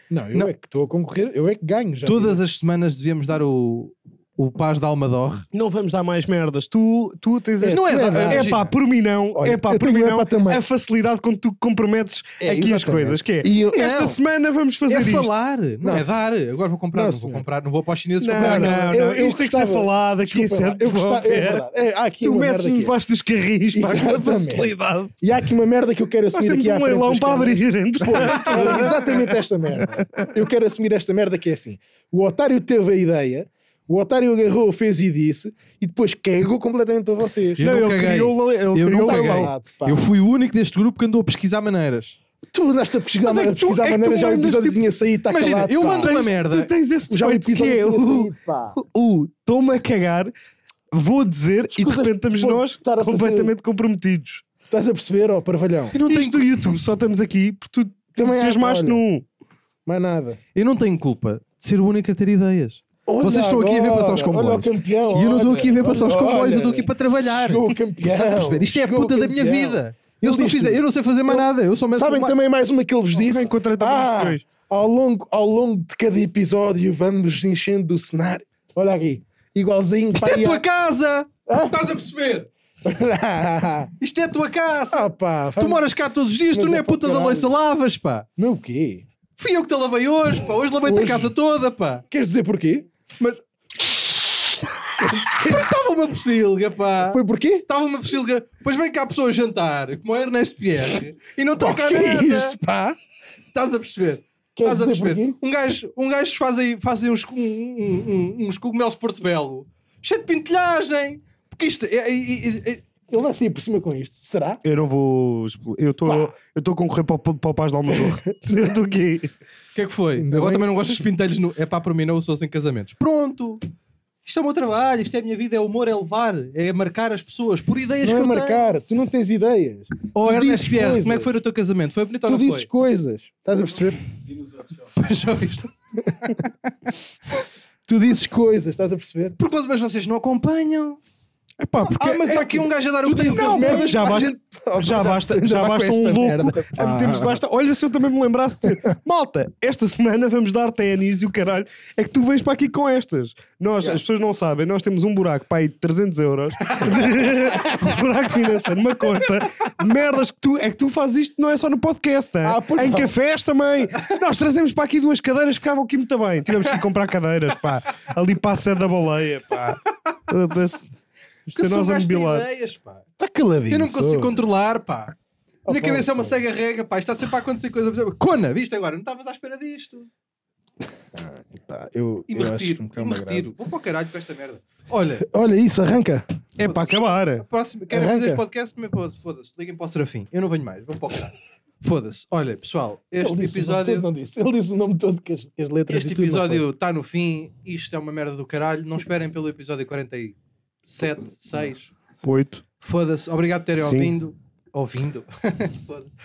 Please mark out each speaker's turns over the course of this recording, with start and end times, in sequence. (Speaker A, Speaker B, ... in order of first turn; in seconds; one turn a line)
Speaker A: 0.1-2.4
Speaker B: 2.0-5.4
Speaker C: 5.5-15.3
Speaker A: 7.6-8.5
Speaker B: 7.7-8.7
Speaker A: 9.4-10.6
Speaker A: 12.4-13.9
Speaker B: 13.7-14.2
Speaker B: 14.9-19.0
Speaker A: 15.8-16.1
Speaker A: 16.9-17.4
Speaker C: 18.2-21.6
Speaker A: 18.3-22.9
Speaker C: 22.2-25.1
Speaker A: 23.7-37.6
Speaker C: 26.3-29.3
Speaker B: 28.4-29.0
Speaker C: 30.0-30.3
Speaker B: 37.6-42.2
Speaker C: 37.6-39.5
Speaker A: 38.9-40.1
Speaker A: 42.5-46.1
Speaker B: 43.2-44.8
Speaker C: 44.2-44.6
Speaker B: 45.3-46.7
Speaker C: 46.0-50.3
Speaker A: 47.1-48.7
Speaker C: 50.9-54.4
Speaker A: 51.8-53.5
Speaker A: 54.7-55.9
Speaker B: 55.9-56.5
Speaker C: 56.0-59.2
Speaker A: 58.1-59.0
Speaker A: 59.9-60.4
Speaker B: 60.5-72.3
Speaker A: 63.0-80.6
Speaker C: 73.2-74.4
Speaker B: 80.1-82.5
Speaker A: 81.5-81.8
Speaker A: 82.8-83.9
Speaker B: 84.0-88.3
Speaker A: 84.9-85.8
Speaker A: 86.5-87.5
Speaker A: 88.4-89.0
Speaker B: 89.4-92.0
Speaker A: 90.8-91.3
Speaker A: 92.1-92.9
Speaker B: 93.2-94.2
Speaker A: 95.0-95.7
Speaker B: 95.0-102.5
Speaker A: 97.1-97.6
Speaker A: 101.6-103.0
Speaker B: 103.5-112.8
Speaker A: 104.5-105.3
Speaker A: 113.1-114.6
Speaker C: 114.6-119.3
Speaker B: 119.7-123.6
Speaker A: 120.2-120.7
Speaker B: 124.2-128.7
Speaker A: 128.0-131.3
Speaker B: 130.1-132.7
Speaker A: 132.2-134.0
Speaker B: 134.8-135.7
Speaker B: 136.2-136.5
Speaker A: 137.9-139.3
Speaker B: 139.4-141.0
Speaker C: 141.6-142.2
Speaker A: 141.9-147.4
Speaker B: 142.0-144.1
Speaker C: 143.3-170.9
Speaker A: 162.4-163.1
Speaker C: 171.4-172.4
Speaker B: 171.5-173.0
Speaker A: 173.2-174.3
Speaker B: 173.7-175.1
Speaker A: 175.7-176.4
Speaker B: 175.7-180.1
Speaker A: 181.1-183.5
Speaker B: 182.3-185.3
Speaker A: 185.2-186.2
Speaker C: 186.6-187.4
Speaker B: 187.4-194.1
Speaker A: 187.9-188.4
Speaker A: 193.2-196.6
Speaker B: 195.9-201.9
Speaker C: 202.2-202.6
Speaker B: 202.8-206.1
Speaker C: 203.8-204.1